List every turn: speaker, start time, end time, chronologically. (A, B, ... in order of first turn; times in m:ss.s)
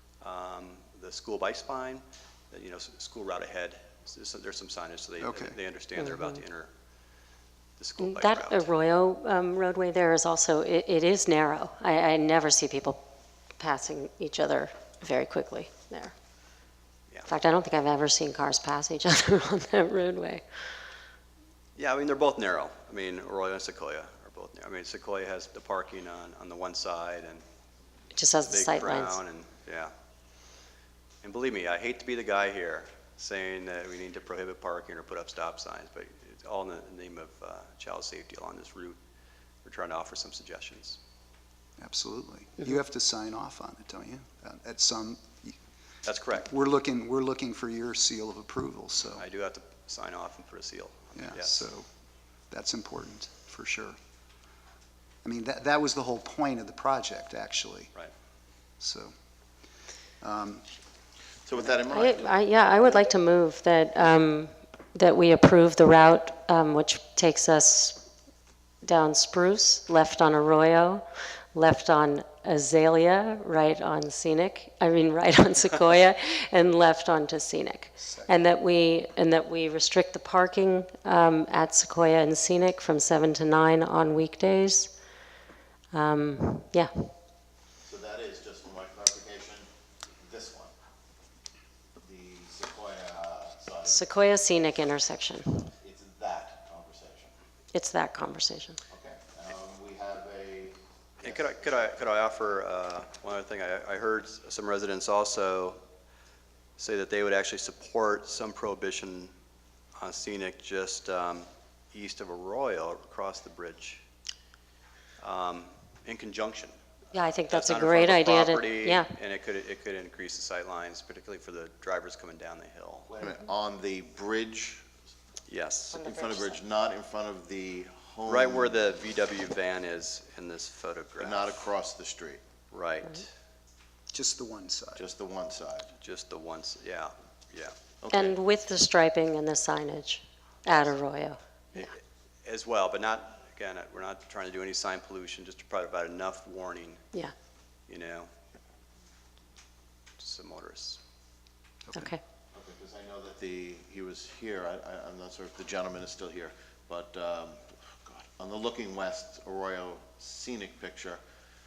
0:00.2-0:06.7 A
0:05.2-0:05.6 B
0:06.0-0:06.4 C
0:07.8-0:08.7 A
0:08.0-0:13.0 C
0:13.6-0:16.1 C
0:17.3-0:20.4 C
0:21.8-0:27.4 A
0:28.1-0:29.2 C
0:28.4-0:29.9 A
0:31.2-0:39.0 A
0:39.6-0:41.0 A
0:41.8-0:45.6 B
0:46.0-0:46.5 A
0:46.4-0:49.2 B
0:49.2-0:51.6 A
0:51.2-0:51.9 B
0:52.5-0:54.0 B
0:55.2-0:57.9 B
0:58.8-0:59.1 B
1:00.2-1:00.6 B
1:01.4-1:03.2 D
1:01.9-1:08.0 C
1:08.8-1:24.9 C
1:18.0-1:18.4 B
1:25.9-1:27.1 C
1:27.8-1:29.7 D
1:30.2-1:30.7 D
1:32.0-1:34.3 D
1:33.9-1:35.7 C
1:35.8-1:37.3 D
1:37.7-1:38.8 C
1:38.9-1:41.9 D
1:41.2-1:45.8 A
1:46.8-1:49.3 A
1:50.0-1:54.0 A
1:55.2-1:56.8 A
1:57.1-1:59.1 C
1:57.5-2:03.1 A
2:03.1-2:04.9 D
2:05.5-2:06.0 A
2:05.9-2:08.9 D
2:06.0-2:06.5 C
2:08.3-2:11.5 A
2:11.2-2:12.4 D
2:12.7-2:13.3 A
2:14.1-2:15.0 B
2:15.0-2:15.9 D
2:16.0-2:17.8 A
2:18.0-2:18.4 D
2:18.1-2:21.9 C
2:21.7-2:27.1 A
2:27.9-2:28.3 A
2:30.2-2:31.0 A
2:31.9-2:32.2 B
2:32.0-2:32.2 C
2:32.5-2:41.2 D